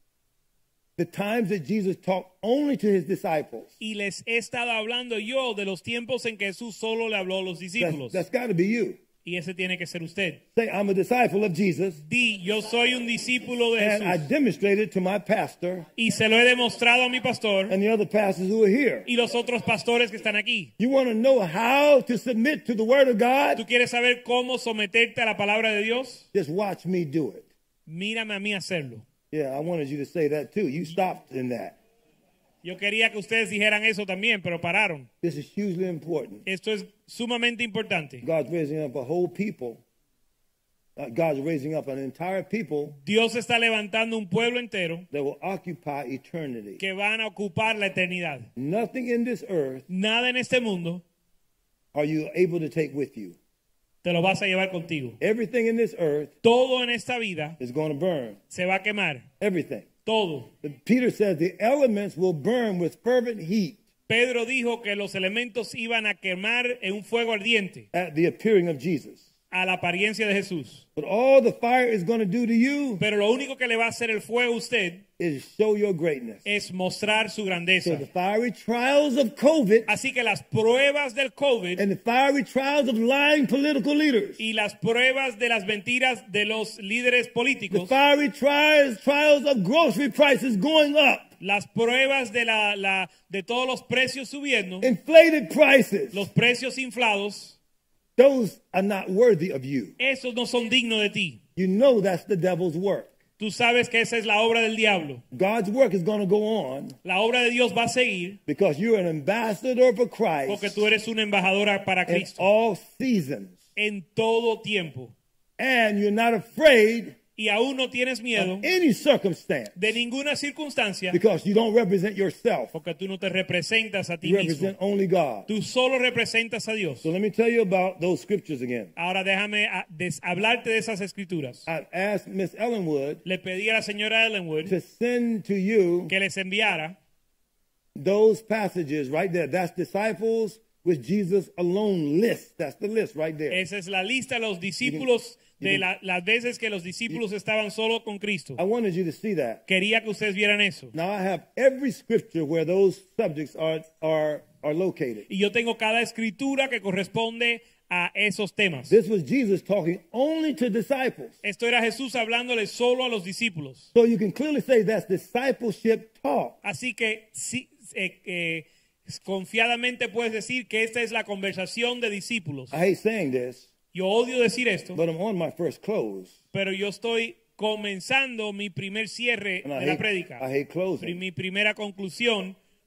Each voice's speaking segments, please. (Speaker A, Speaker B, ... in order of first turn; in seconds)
Speaker A: 1.0-3.7, 7.8-9.0, 10.6-12.0, 13.8-15.9, 17.7-19.1, 20.8-23.6, 26.3-27.5, 29.3-31.8, 35.2-36.5, 38.2-39.8, 41.0-43.0, 45.1-46.8, 48.6-49.9, 51.9-53.4, 55.2-56.3, 57.6-58.4, 59.4-59.9, 60.6-63.8, 67.9-69.2, 71.0-73.0, 75.2-76.5, 77.8-79.9, 81.8-84.4, 87.7-91.3, 94.8-96.3, 98.2-100.0, 101.6-103.1, 105.3-107.0, 108.5-110.9, 112.1-113.6, 115.6-117.2, 118.3-120.0, 121.1-122.8, 124.2-125.5, 127.0-128.9, 131.7-133.2, 134.7-136.1, 137.9-143.6, 144.8-145.1, 145.6-145.9, 148.6-149.6, 150.9-155.3, 158.9-161.3, 163.9-166.6, 172.7-173.7, 174.9-176.3, 179.6-181.2
Speaker B: 3.8-8.2, 9.2-10.4, 12.0-14.3, 16.0-17.8, 19.1-20.7, 23.6-26.3, 27.9-29.1, 32.6-35.1, 36.5-38.2, 42.9-45.1, 46.8-48.5, 49.9-51.0, 54.0-55.2, 56.4-57.6, 58.5-59.3, 60.0-60.5, 64.1-67.9, 69.5-70.8, 73.0-75.0, 76.5-78.0, 79.9-81.8, 84.4-87.9, 91.4-94.9, 96.1-97.6, 100.0-101.4, 103.4-105.2, 107.0-108.4, 110.5-112.5, 113.8-115.1, 117.4-118.7, 119.8-121.2, 122.7-124.7, 125.5-127.1, 129.0-131.7, 133.2-134.8, 136.1-137.0, 143.5-148.6, 149.7-150.9, 155.3-159.0, 161.4-163.9, 166.6-172.8, 173.9-175.0, 176.5-180.4, 181.0-182.6